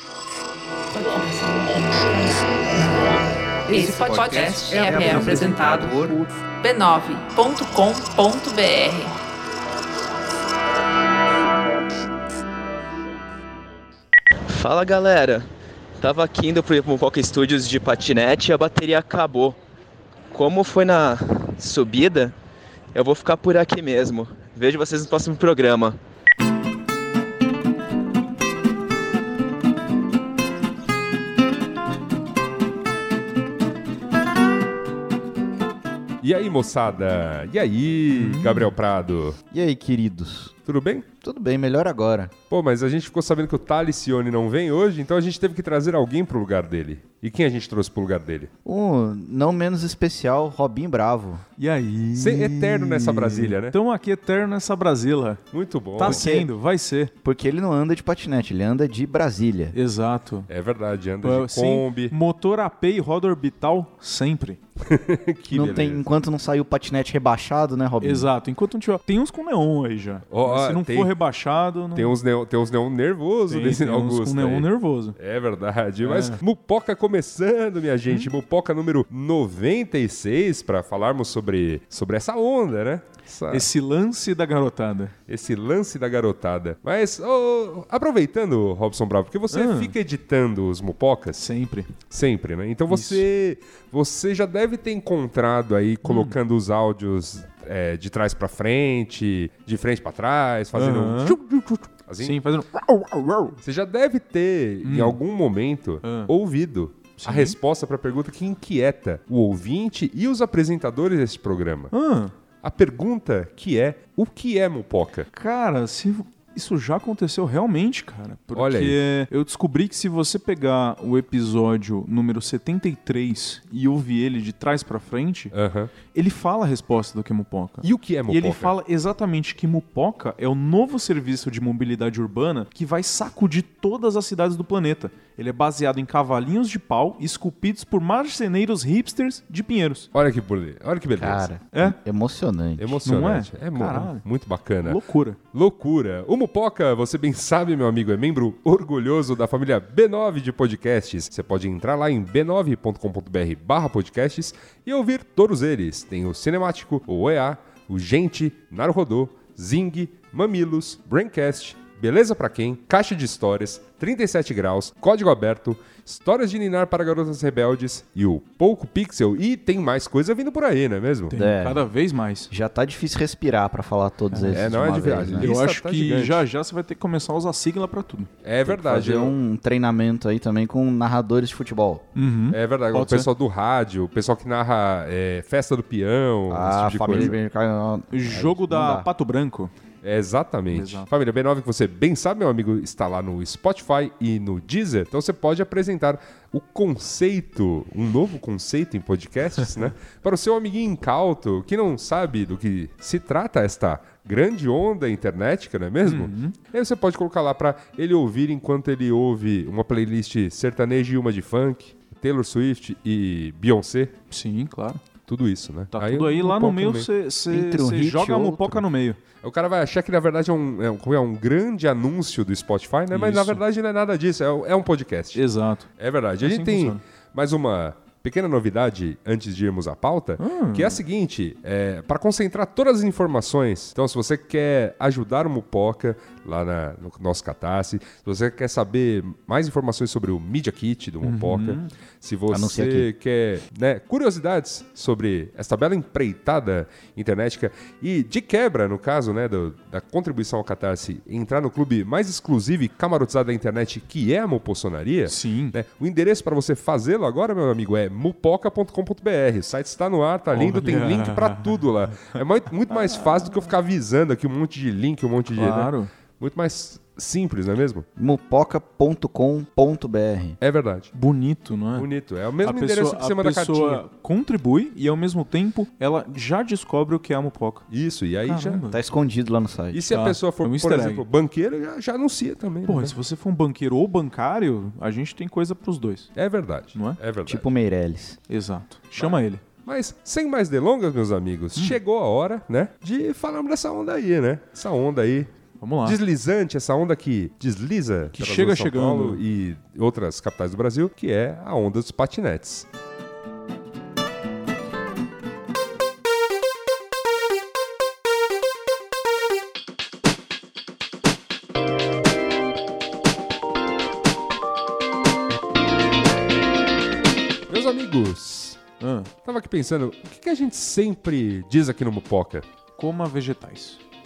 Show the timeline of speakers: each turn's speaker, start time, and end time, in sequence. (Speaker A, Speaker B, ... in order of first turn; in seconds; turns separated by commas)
Speaker A: 0.9-9.2, Speaker B: 3.7-6.3, Speaker C: 14.5-15.5, Speaker C: 16.0-19.6, Speaker C: 20.3-22.3, Speaker C: 22.9-26.0, Speaker D: 36.2-39.4, Speaker E: 38.1-38.7, Speaker B: 39.5-40.5, Speaker D: 40.6-41.1, Speaker B: 41.2-42.3, Speaker D: 42.5-48.5, Speaker B: 48.6-51.4, Speaker E: 51.6-55.4, Speaker D: 52.1-53.8, Speaker D: 55.5-56.2, Speaker E: 56.0-57.1, Speaker B: 56.0-56.5, Speaker B: 57.2-59.8, Speaker E: 59.7-60.5, Speaker D: 60.5-62.1, Speaker E: 61.2-64.6, Speaker D: 64.8-66.0, Speaker B: 65.5-68.3, Speaker E: 68.0-72.2, Speaker D: 70.3-71.1, Speaker D: 71.9-83.7, Speaker E: 73.5-75.2, Speaker E: 76.0-76.4, Speaker E: 83.5-85.1, Speaker D: 85.3-91.5, Speaker E: 89.5-89.9, Speaker E: 91.3-91.9, Speaker D: 92.1-102.4, Speaker E: 92.9-93.2, Speaker E: 96.0-96.3, Speaker E: 100.7-101.4, Speaker E: 102.2-103.6, Speaker D: 103.6-111.9, Speaker E: 104.8-105.2, Speaker E: 106.0-106.3, Speaker E: 107.2-107.5, Speaker E: 111.9-112.3, Speaker D: 112.6-115.3, Speaker E: 115.3-125.5, Speaker D: 118.5-119.0, Speaker D: 125.5-125.9, Speaker E: 126.1-140.1, Speaker D: 127.8-128.7, Speaker D: 140.1-141.5, Speaker B: 141.2-143.0, Speaker D: 142.8-145.0, Speaker E: 143.0-144.2, Speaker E: 144.8-145.4, Speaker D: 145.5-171.3, Speaker E: 171.3-172.5, Speaker B: 171.3-171.9, Speaker B: 172.5-175.5, Speaker E: 174.3-174.6, Speaker D: 174.5-176.4, Speaker E: 175.4-178.3, Speaker D: 178.4-179.3, Speaker B: 178.6-182.1, Speaker E: 182.1-183.3, Speaker D: 182.5-187.3, Speaker B: 186.5-189.1, Speaker E: 188.1-189.7, Speaker D: 190.0-214.1, Speaker E: 190.7-191.1, Speaker E: 206.0-206.6, Speaker E: 214.3-215.0, Speaker D: 215.3-217.1, Speaker E: 215.9-219.2, Speaker B: 217.5-218.8, Speaker D: 219.4-225.4, Speaker E: 223.1-223.6, Speaker E: 225.3-225.9, Speaker D: 226.0-268.1, Speaker E: 226.4-227.0, Speaker E: 230.4-231.0, Speaker E: 241.2-241.9, Speaker B: 242.5-243.1, Speaker E: 255.3-255.8, Speaker E: 260.5-262.4, Speaker E: 262.9-263.5, Speaker E: 265.5-266.1, Speaker B: 268.2-270.6, Speaker D: 270.6-271.1, Speaker E: 271.1-272.1, Speaker D: 271.9-274.0, Speaker E: 272.6-277.8, Speaker D: 277.9-278.8, Speaker E: 278.4-279.0, Speaker B: 278.9-280.0, Speaker D: 279.9-283.1, Speaker E: 280.1-281.2, Speaker E: 282.9-286.3, Speaker D: 286.4-287.6, Speaker E: 286.9-287.2, Speaker B: 287.4-288.4, Speaker E: 288.5-289.6, Speaker D: 289.2-295.5, Speaker E: 295.8-296.2, Speaker D: 296.0-302.9, Speaker E: 298.3-299.4, Speaker D: 317.7-318.8, Speaker E: 319.0-319.3, Speaker D: 319.4-322.6, Speaker E: 323.0-324.0